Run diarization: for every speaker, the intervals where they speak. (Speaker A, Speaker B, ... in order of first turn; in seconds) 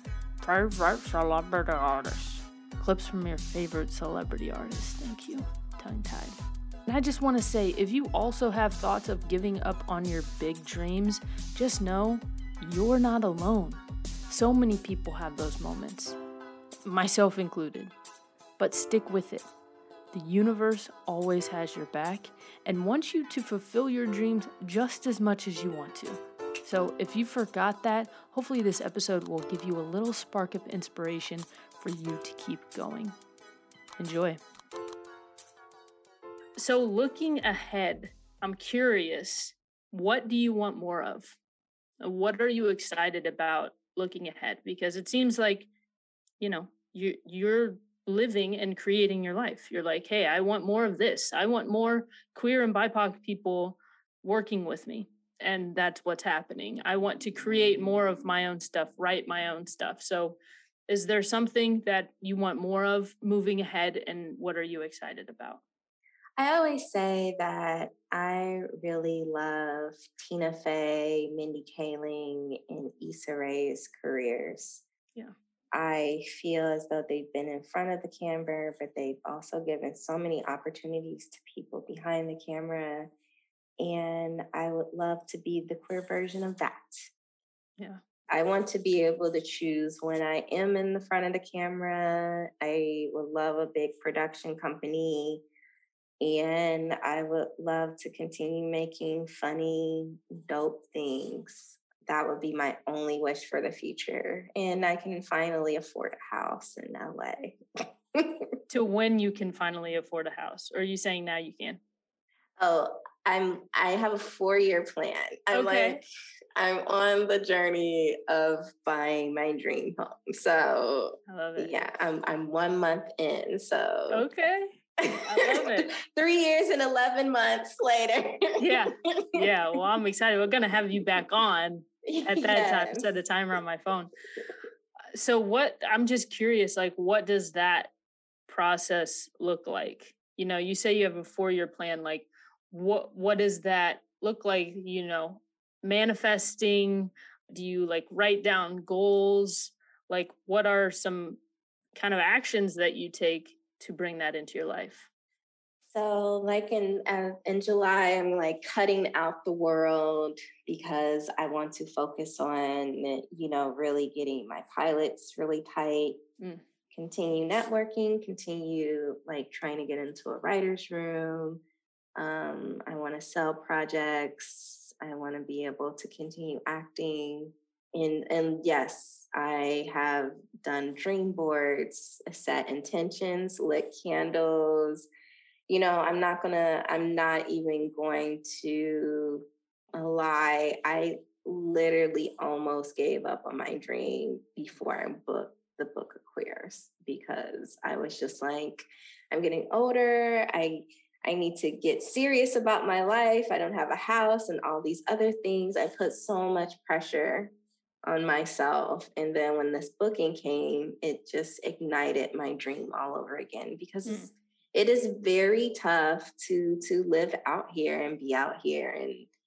Speaker A: 0.4-16.2, 16.9-17.9, 18.6-19.5, 20.1-33.2, 34.0-34.4, 36.6-41.4, 42.0-45.7, 46.4-65.6, 108.7-111.8, 115.5-116.0, 121.3-121.7, 124.1-124.7, 125.2-125.9, 128.6-134.1, 135.1-137.9, 138.5-151.4, 151.9-155.1
Speaker B: 66.4-74.8, 75.7-83.1, 83.8-87.0, 88.3-95.4, 96.2-107.6, 108.1-108.5, 112.6-116.0, 116.6-124.3, 125.0-129.5, 132.1-133.2, 155.9-166.2, 166.9-171.6, 172.2-185.1, 185.7-207.5, 208.0-219.3